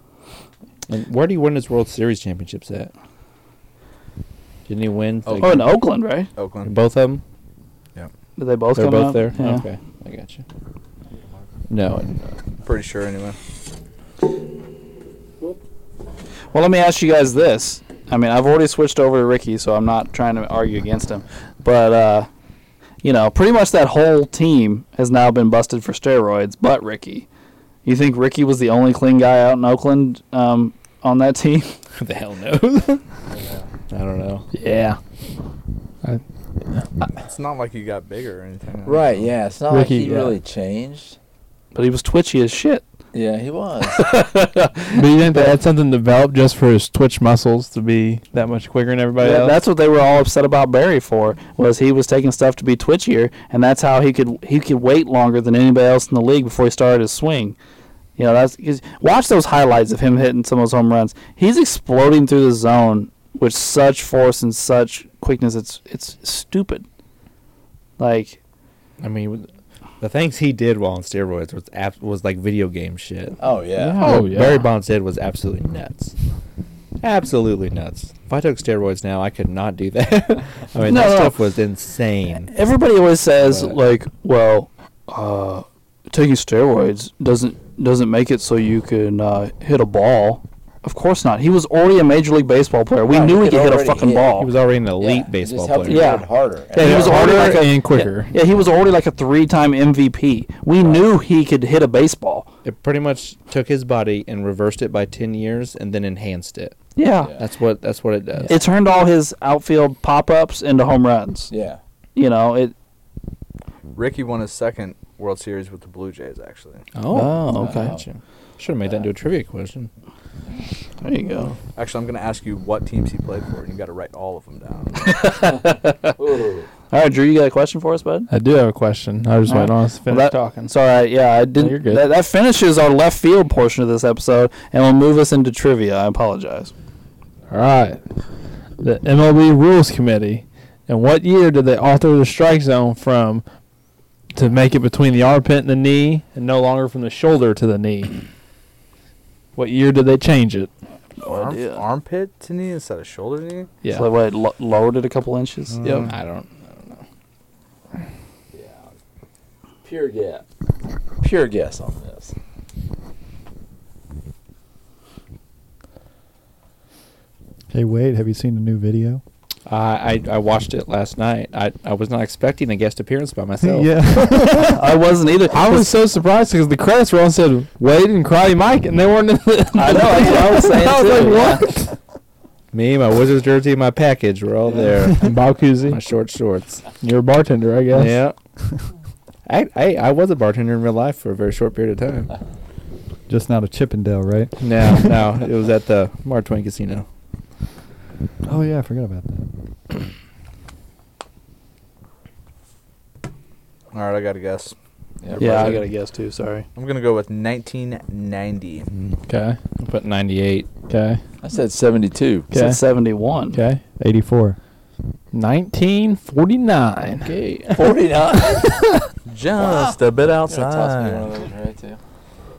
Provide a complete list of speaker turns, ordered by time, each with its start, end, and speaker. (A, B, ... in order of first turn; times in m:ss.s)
0:00.9-0:02.9 A
0:04.7-0:05.7 A
0:05.2-0:05.6 B
0:05.4-0:06.3 C
0:06.4-0:06.7 B
0:06.6-0:07.2 A
0:08.4-0:09.6 C
0:08.7-0:10.4 A
0:11.7-0:12.2 A
0:12.6-0:13.4 B
0:16.5-0:22.3 C
0:23.0-0:27.3 C
0:27.8-0:31.8 C
0:31.9-0:33.0 A
0:33.3-0:33.6 D
0:33.9-0:34.5 A
0:34.5-0:35.0 E
0:37.2-0:39.2 B
0:38.8-0:41.2 D
0:39.7-0:40.4 E
0:41.7-0:42.8 C
0:43.1-0:44.1 D
0:44.0-0:45.0 C
0:44.9-0:49.6 E
0:49.2-0:57.6 C
0:58.2-1:06.8 C
1:08.0-1:08.4 C
1:09.0-1:09.5 A
1:10.0-1:16.1 A
1:13.4-1:14.1 D
1:14.0-1:14.7 E
1:17.0-1:22.5 A
1:20.8-1:21.4 C
1:22.5-1:34.5 C
1:23.4-1:23.8 A
1:33.0-1:34.4 D
1:34.3-1:36.2 A
1:35.0-1:37.5 D
1:35.8-1:42.5 C
1:36.7-1:38.3 E
1:42.6-1:46.8 A
1:47.0-1:47.3 C
1:47.4-1:48.5 A
1:48.5-1:51.5 C
1:51.5-1:51.8 D
1:52.2-1:52.7 C
1:53.9-1:56.8 B
1:57.0-1:59.9 A
1:57.1-1:57.9 C
1:57.5-1:58.0 D
2:01.0-2:01.5 C
2:01.8-2:05.1 B
2:05.0-2:06.2 C
2:06.2-2:06.7 D
2:06.9-2:08.3 C
2:08.3-2:10.7 E
2:09.4-2:16.7 C
2:11.5-2:12.1 E
2:17.5-2:18.0 E
2:18.8-2:23.4 E
2:24.3-2:28.1 E
2:29.6-2:30.7 E
2:31.2-2:31.8 C
2:31.2-2:33.7 B
2:33.8-2:34.1 E
2:33.9-2:36.0 C
2:35.8-2:36.1 E
2:36.0-2:36.9 A
2:38.5-2:38.9 D
2:39.8-2:40.4 D
2:41.2-2:42.3 D
2:47.7-2:49.2 F
2:49.6-2:54.7 A
2:53.6-2:54.7 F
2:54.7-2:55.9 C
2:55.4-3:01.9 E
2:59.7-3:01.7 C
3:02.7-3:06.8 A
3:05.1-3:06.0 E
3:07.0-3:08.2 E
3:07.9-3:08.3 A
3:09.4-3:12.3 A
3:13.3-3:15.2 F
3:14.6-3:17.0 A
3:18.5-3:19.5 F
3:23.9-3:24.7 B
3:25.2-3:25.8 D
3:25.4-3:25.8 B
3:25.4-3:26.6 C
3:26.7-3:28.9 B
3:29.3-3:29.6 E
3:29.8-3:30.7 A
3:30.9-3:31.2 E
3:31.4-3:32.5 D
3:32.5-3:32.8 E
3:32.5-3:33.6 C
3:33.5-3:33.8 E
3:34.0-3:34.6 F
3:35.3-3:37.3 E
3:37.2-3:37.9 A
3:37.7-3:38.7 D
3:39.2-3:41.3 B
3:39.6-3:42.0 D